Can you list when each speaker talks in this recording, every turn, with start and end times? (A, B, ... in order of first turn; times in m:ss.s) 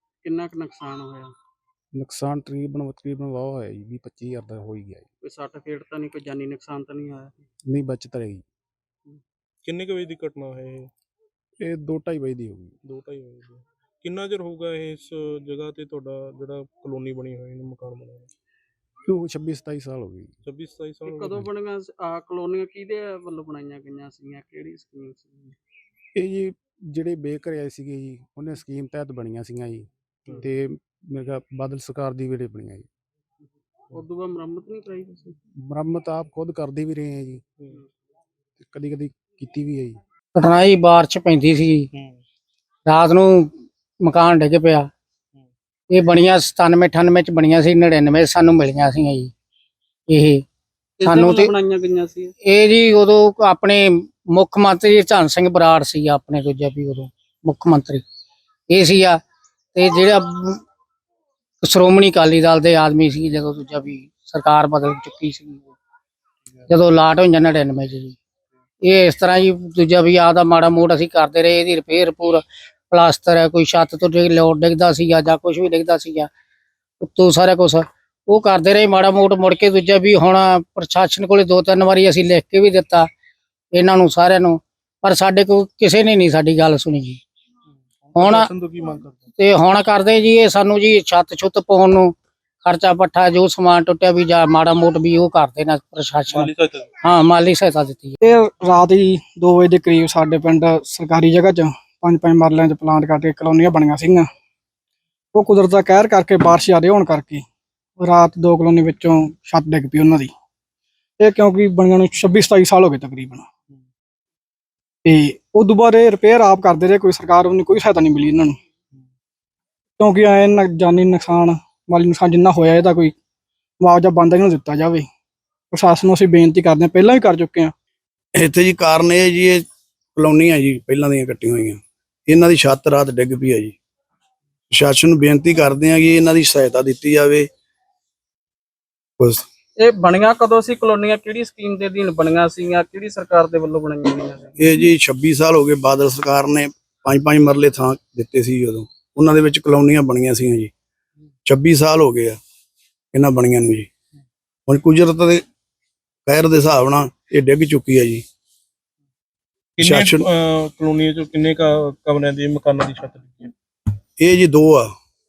0:00.2-0:01.3 A
0:01.9-0:05.1 B
0:05.2-0:07.4 A
0:07.7-0:08.4 B
0:09.6-0:10.9 C
0:11.6-0:12.8 B
0:12.8-0:18.3 C
0:19.0-0:20.3 B
0:20.4-0:21.4 C
0:21.0-0:25.6 A
0:26.1-0:32.9 B
0:33.9-0:35.4 A
0:35.7-0:37.4 B
0:38.6-0:40.0 B
0:40.3-0:41.9 D
0:41.9-0:42.2 C
0:42.9-0:43.5 D
0:44.0-0:44.9 D
0:45.9-0:49.3 D
0:50.1-0:50.4 D
0:51.0-0:52.3 A
0:51.0-0:51.5 D
0:52.4-0:58.0 D
0:58.7-0:59.2 D
0:59.7-1:00.6 D
1:01.6-1:05.7 D
1:06.7-1:08.2 D
1:08.8-1:16.3 D
1:17.0-1:23.1 D
1:23.7-1:27.2 D
1:28.0-1:29.2 C
1:28.2-1:28.5 D
1:29.4-1:36.5 D
1:36.3-1:36.9 C
1:37.0-1:38.2 D
1:38.2-1:44.3 E
1:45.3-1:47.4 E
1:48.0-1:50.3 E
1:51.2-1:53.4 E
1:55.0-1:58.6 E
2:00.0-2:03.1 E
2:03.8-2:05.0 E
2:05.7-2:07.7 E
2:08.4-2:09.6 F
2:10.2-2:13.8 F
2:14.7-2:17.5 F
2:19.2-2:19.4 F
2:19.8-2:24.6 A
2:24.6-2:30.7 F
2:31.4-2:32.4 F
2:33.1-2:33.9 F
2:34.7-2:35.4 F
2:36.2-2:38.2 F
2:39.8-2:43.5 C
2:39.8-2:40.2 F
2:44.2-2:44.9 F